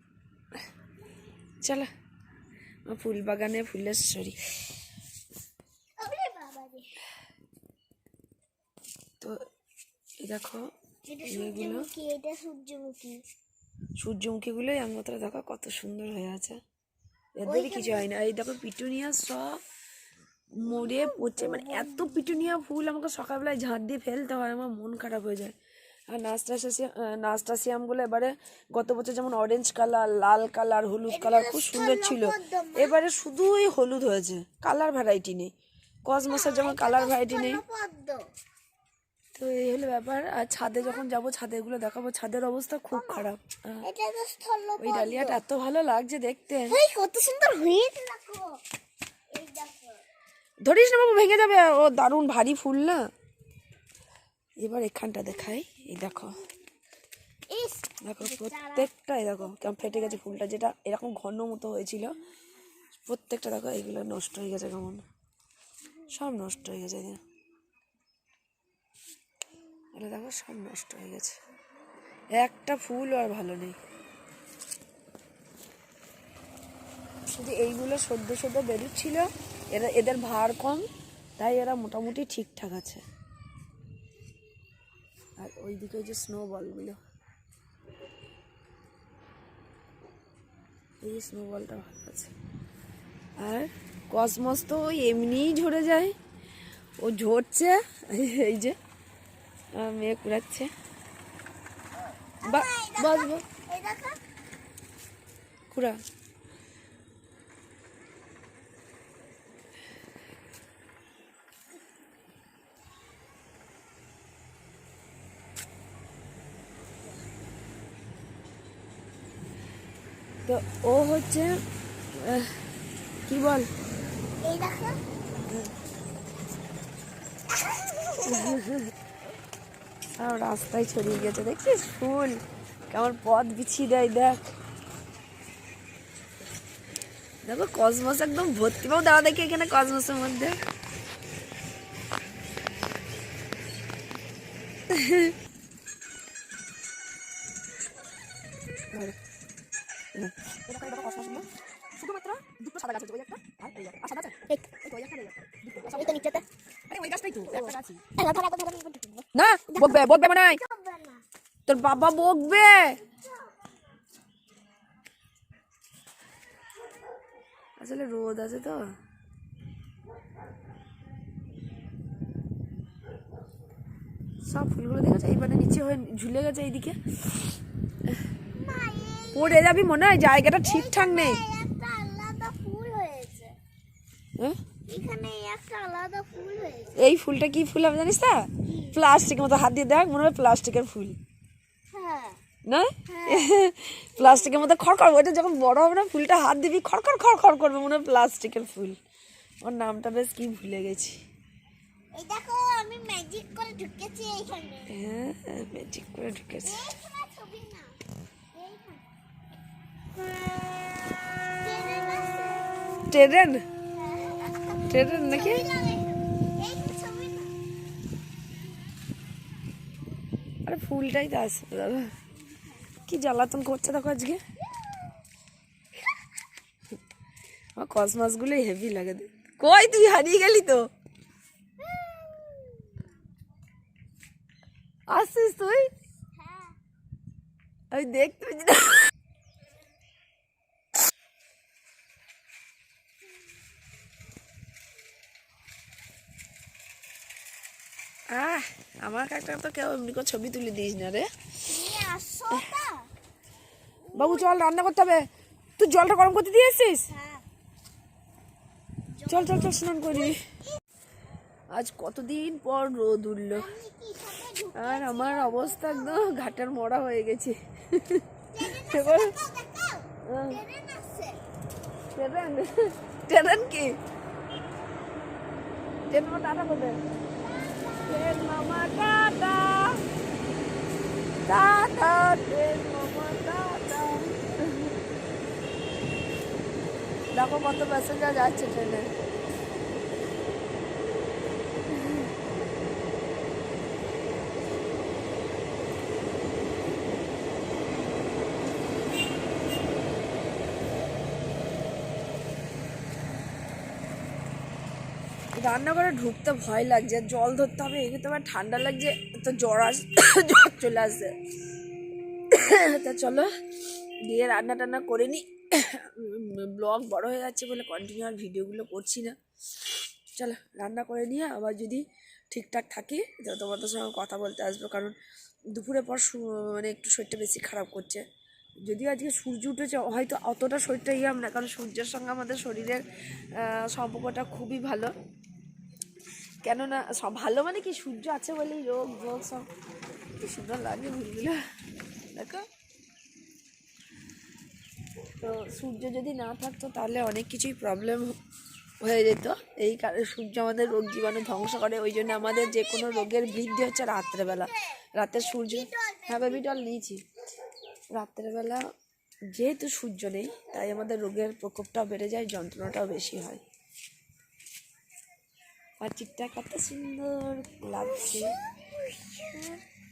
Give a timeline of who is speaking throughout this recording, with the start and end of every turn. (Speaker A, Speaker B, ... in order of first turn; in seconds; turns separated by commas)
Speaker A: 1.6-1.9, Speaker A: 2.9-4.4, Speaker B: 6.0-7.0, Speaker A: 10.2-10.7, Speaker B: 11.1-13.2, Speaker A: 11.3-11.9, Speaker A: 14.0-16.6, Speaker A: 17.4-19.6, Speaker B: 17.5-18.1, Speaker A: 20.6-25.6, Speaker B: 20.6-22.5, Speaker A: 26.1-35.5, Speaker B: 31.1-33.0, Speaker A: 36.1-37.6, Speaker B: 36.3-38.2, Speaker A: 39.4-43.9, Speaker B: 40.7-41.0, Speaker B: 42.9-43.3, Speaker B: 43.8-45.4, Speaker A: 44.8-46.8, Speaker B: 46.7-48.6, Speaker B: 49.3-50.0, Speaker A: 50.6-53.1, Speaker A: 54.6-56.4, Speaker B: 57.5-58.9, Speaker A: 58.0-62.1, Speaker B: 59.4-60.2, Speaker A: 63.1-65.0, Speaker A: 66.1-67.2, Speaker A: 70.0-71.3, Speaker A: 72.4-73.8, Speaker A: 77.3-80.8, Speaker A: 81.4-83.0, Speaker A: 85.4-87.0, Speaker A: 91.0-92.3, Speaker A: 93.4-96.1, Speaker A: 97.0-98.8, Speaker A: 99.8-100.7, Speaker B: 102.4-104.2, Speaker A: 102.5-103.4, Speaker A: 105.7-106.0, Speaker A: 120.5-121.6, Speaker A: 122.2-122.6, Speaker A: 123.3-123.7, Speaker B: 124.4-125.0, Speaker A: 125.5-125.7, Speaker B: 127.6-128.6, Speaker A: 128.3-128.9, Speaker A: 130.2-132.4, Speaker A: 132.9-134.4, Speaker A: 137.4-140.6, Speaker A: 144.9-145.3, Speaker A: 150.2-156.3, Speaker B: 155.9-156.4, Speaker A: 156.9-158.1, Speaker B: 157.5-161.2, Speaker A: 159.3-160.6, Speaker A: 161.7-163.0, Speaker B: 161.9-163.6, Speaker A: 167.8-168.9, Speaker A: 174.4-177.6, Speaker B: 178.5-179.9, Speaker A: 179.3-181.4, Speaker B: 180.5-183.6, Speaker B: 184.9-186.9, Speaker A: 187.0-191.2, Speaker B: 188.7-189.0, Speaker B: 191.9-192.4, Speaker A: 192.7-199.0, Speaker B: 193.1-193.6, Speaker B: 194.2-194.7, Speaker A: 199.6-201.2, Speaker B: 202.2-204.9, Speaker A: 204.9-206.9, Speaker B: 206.6-208.0, Speaker B: 208.5-209.0, Speaker B: 211.5-212.7, Speaker A: 213.1-213.6, Speaker B: 213.9-217.5, Speaker A: 214.9-215.7, Speaker A: 220.7-222.1, Speaker B: 222.5-222.8, Speaker A: 223.1-224.4, Speaker B: 224.7-225.2, Speaker A: 227.8-230.8, Speaker B: 231.8-233.1, Speaker A: 235.1-235.9, Speaker B: 236.4-236.8, Speaker A: 237.9-239.1, Speaker A: 248.3-251.3, Speaker B: 251.7-253.1, Speaker B: 254.0-254.6, Speaker A: 254.2-255.3, Speaker A: 255.8-257.1, Speaker B: 257.1-257.4, Speaker B: 259.1-260.8, Speaker A: 259.3-260.4, Speaker A: 261.7-263.7, Speaker B: 263.5-266.6, Speaker A: 264.7-269.3, Speaker B: 268.5-271.4, Speaker A: 270.3-270.6, Speaker A: 272.1-274.0, Speaker A: 276.1-277.0, Speaker B: 277.4-278.3, Speaker A: 278.1-280.0, Speaker A: 281.5-284.9, Speaker A: 287.3-289.1, Speaker A: 305.6-311.3, Speaker A: 312.5-313.5, Speaker A: 314.3-319.4, Speaker A: 320.4-325.1, Speaker A: 325.7-328.2, Speaker A: 328.9-333.0, Speaker A: 333.6-335.1, Speaker A: 336.6-339.7, Speaker A: 340.4-341.6, Speaker A: 342.4-342.7, Speaker A: 345.4-348.4, Speaker A: 349.0-357.2, Speaker B: 352.2-356.8, Speaker A: 358.1-358.8, Speaker A: 359.5-363.6, Speaker A: 366.0-368.6, Speaker B: 368.0-369.8